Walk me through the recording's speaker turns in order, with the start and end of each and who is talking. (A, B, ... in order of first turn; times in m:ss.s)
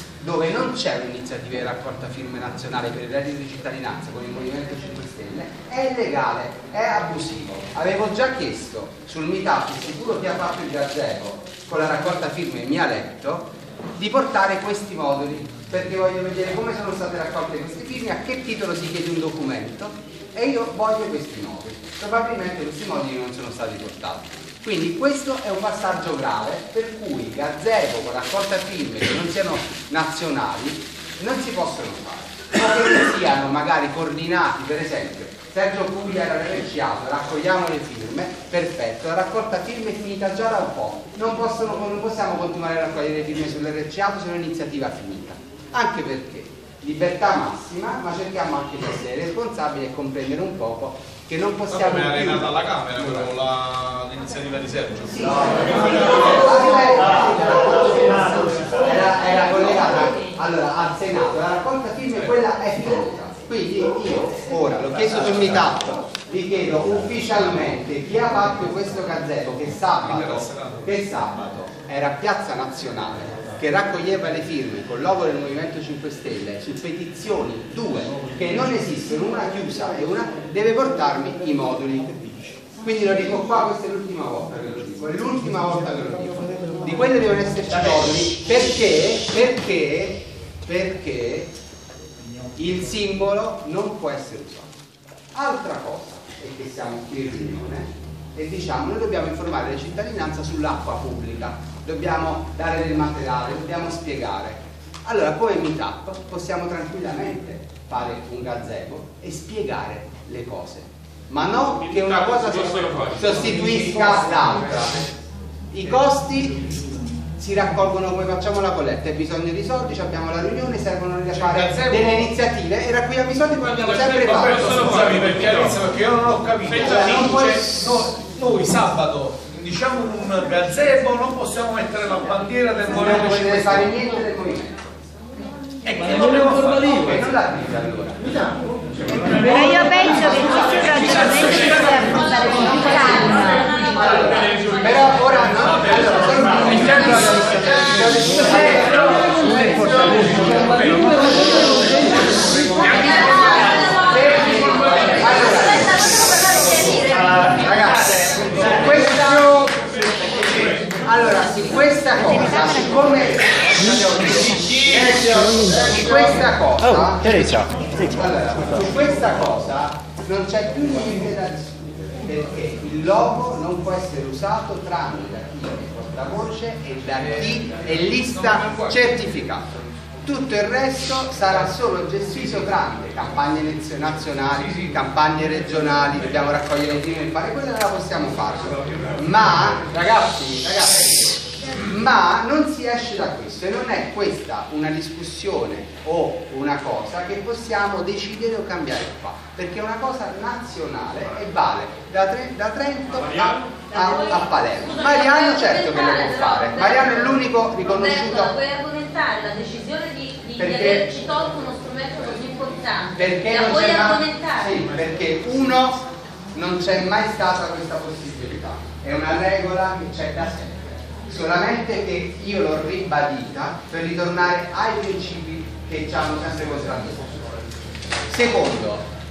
0:00.2-0:53.3 A
0:51.7-0:56.3 B
0:55.1-1:31.5 A
1:10.0-1:10.8 B
1:32.5-1:34.7 A
1:35.3-1:55.0 A
1:51.9-1:54.5 B
1:55.7-1:56.7 A
1:57.4-2:05.8 A
2:01.3-2:02.2 B
2:03.6-2:14.0 B
2:06.7-2:07.8 A
2:12.9-2:15.0 A
2:15.9-2:17.2 B
2:16.0-2:18.2 A
2:19.2-2:20.4 B
2:19.4-2:23.7 C
2:19.8-2:20.5 A
2:21.3-2:21.6 B
2:22.1-2:25.0 D
2:22.5-2:23.2 A
2:23.9-2:30.7 A
2:25.5-2:29.0 B
2:30.0-2:31.5 B
2:32.7-2:37.7 C
2:33.0-2:34.4 D
2:33.9-2:36.1 A
2:37.6-2:39.7 A
2:41.0-2:59.7 A
2:44.5-2:45.4 B
2:58.2-2:58.9 B
3:00.2-3:28.5 A
3:23.9-3:34.8 D
3:30.6-3:31.2 A
3:33.2-3:36.0 A
3:36.5-3:47.6 A
3:48.3-3:49.1 A